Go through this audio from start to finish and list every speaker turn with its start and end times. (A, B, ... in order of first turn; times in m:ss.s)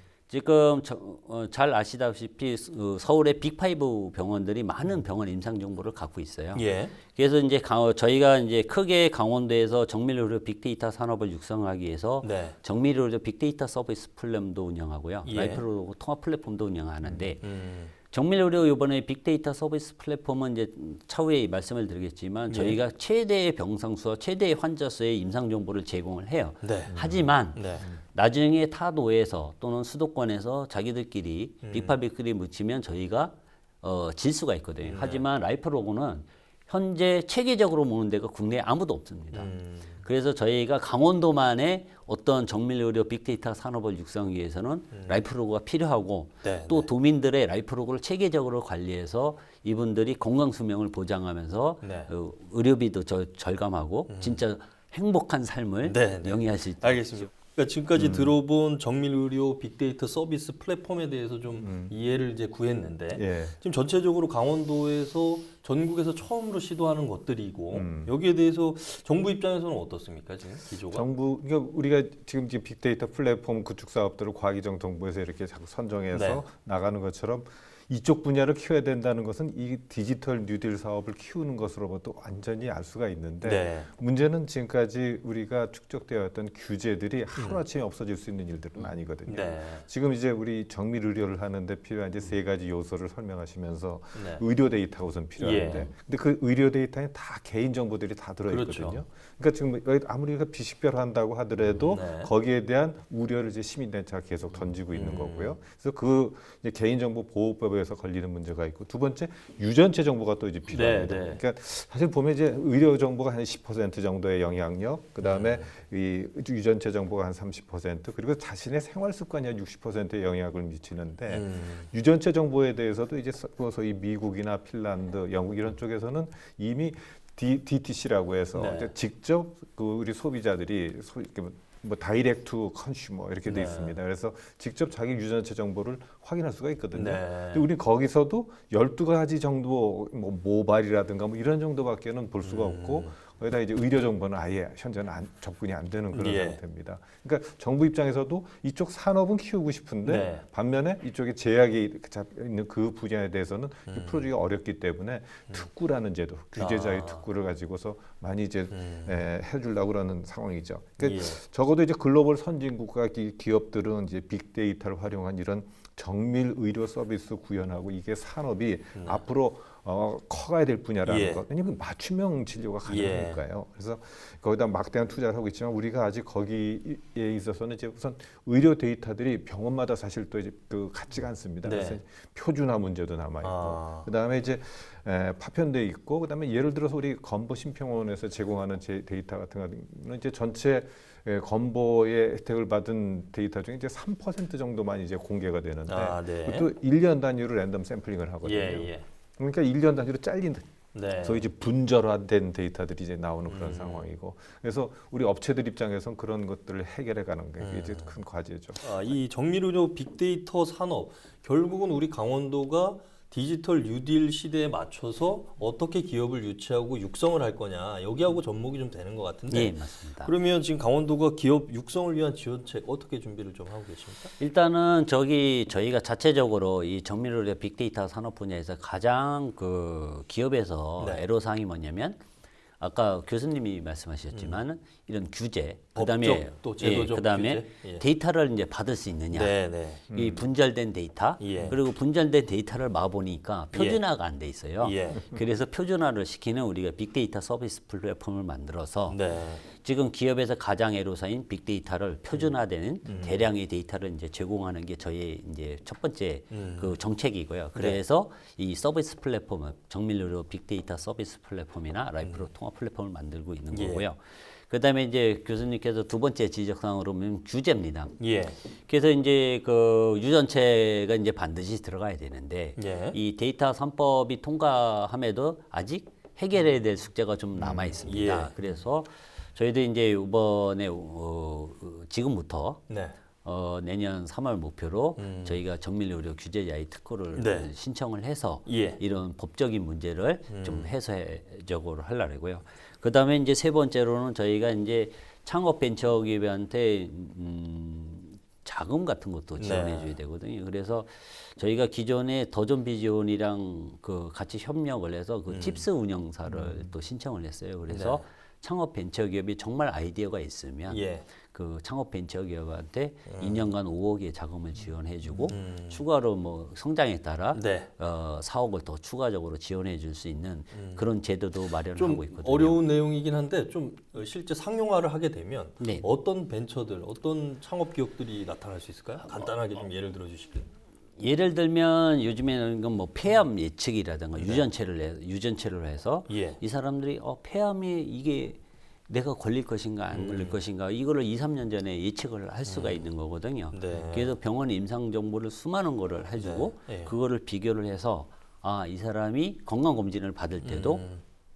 0:00.3-0:17.4 A
0:06.5-0:07.0 B
0:12.2-0:12.6 B
0:15.2-0:15.6 B
0:17.4-0:17.9 B
0:18.1-0:57.2 A
0:22.5-0:22.8 B
0:26.6-0:27.0 B
0:26.9-0:27.3 C
0:27.5-0:27.9 B
0:31.6-0:32.0 B
0:34.8-0:35.2 B
0:39.3-0:40.0 B
0:44.9-0:45.2 B
0:46.4-0:46.9 B
0:51.8-0:52.1 B
0:54.1-0:54.4 B
0:55.8-1:11.1 B
0:58.0-0:58.4 C
1:01.6-1:01.9 C
1:03.1-1:03.6 C
1:07.7-1:08.1 C
1:10.9-3:29.2 C
1:16.1-1:16.4 B
1:23.4-1:23.9 B
1:27.4-1:27.6 B
1:29.3-1:29.9 B
1:34.1-1:34.4 B
1:35.4-1:35.9 B
1:38.5-1:39.0 B
1:41.8-1:42.3 B
1:44.9-1:45.6 B
1:50.7-1:51.4 B
1:55.2-1:55.7 B
2:01.3-2:01.9 B
2:08.6-2:08.9 B
2:13.4-2:14.0 B
2:16.9-2:17.7 B
2:22.4-2:23.2 B
2:26.1-2:26.6 B
2:30.0-2:30.4 B
2:33.9-2:34.3 B
2:36.6-2:37.3 B
2:38.7-2:39.2 B
2:41.0-2:41.4 B
2:49.0-2:49.2 B
2:51.0-2:51.4 B
2:52.9-2:53.4 B
3:01.6-3:02.0 B
3:03.4-3:04.1 B
3:15.9-3:16.7 B
3:18.4-3:19.0 B
3:20.9-3:21.5 B
3:23.5-3:24.1 B
3:27.6-3:28.2 B
3:28.8-3:44.3 B
3:39.5-3:40.3 A
3:44.4-3:52.2 A
3:51.0-3:51.3 B
3:52.8-4:28.2 A
3:54.3-3:54.6 B
3:56.0-3:58.0 B
3:59.3-4:00.1 B
4:00.1-4:00.4 C
4:01.4-4:01.8 B
4:03.7-4:04.0 B
4:04.8-4:05.3 B
4:09.1-4:09.6 B
4:13.0-4:13.5 B
4:16.5-4:17.0 B
4:17.8-4:18.0 B
4:22.2-4:22.5 B
4:23.7-4:24.0 B
4:28.2-4:28.6 B
4:28.9-4:42.8 A
4:32.8-4:33.2 B
4:37.6-4:38.5 B
4:42.9-4:43.2 B
4:43.4-5:22.8 A
4:45.2-4:45.6 B
4:47.3-4:47.7 B
4:48.7-4:49.0 B
4:50.5-4:50.9 B
4:59.6-5:00.2 B
5:05.5-5:05.9 B
5:07.9-5:08.2 B
5:10.9-5:11.3 B
5:13.3-5:13.7 B
5:15.5-5:16.0 B
5:17.5-5:17.9 B
5:20.7-5:21.1 B
5:21.9-5:30.7 B
5:25.8-5:26.0 A
5:31.2-5:51.0 A
5:34.4-5:34.7 B
5:36.3-5:36.6 B
5:40.1-5:40.6 B
5:42.6-5:43.1 B
5:43.7-5:44.4 B
5:46.4-5:47.2 B
5:50.6-5:51.2 B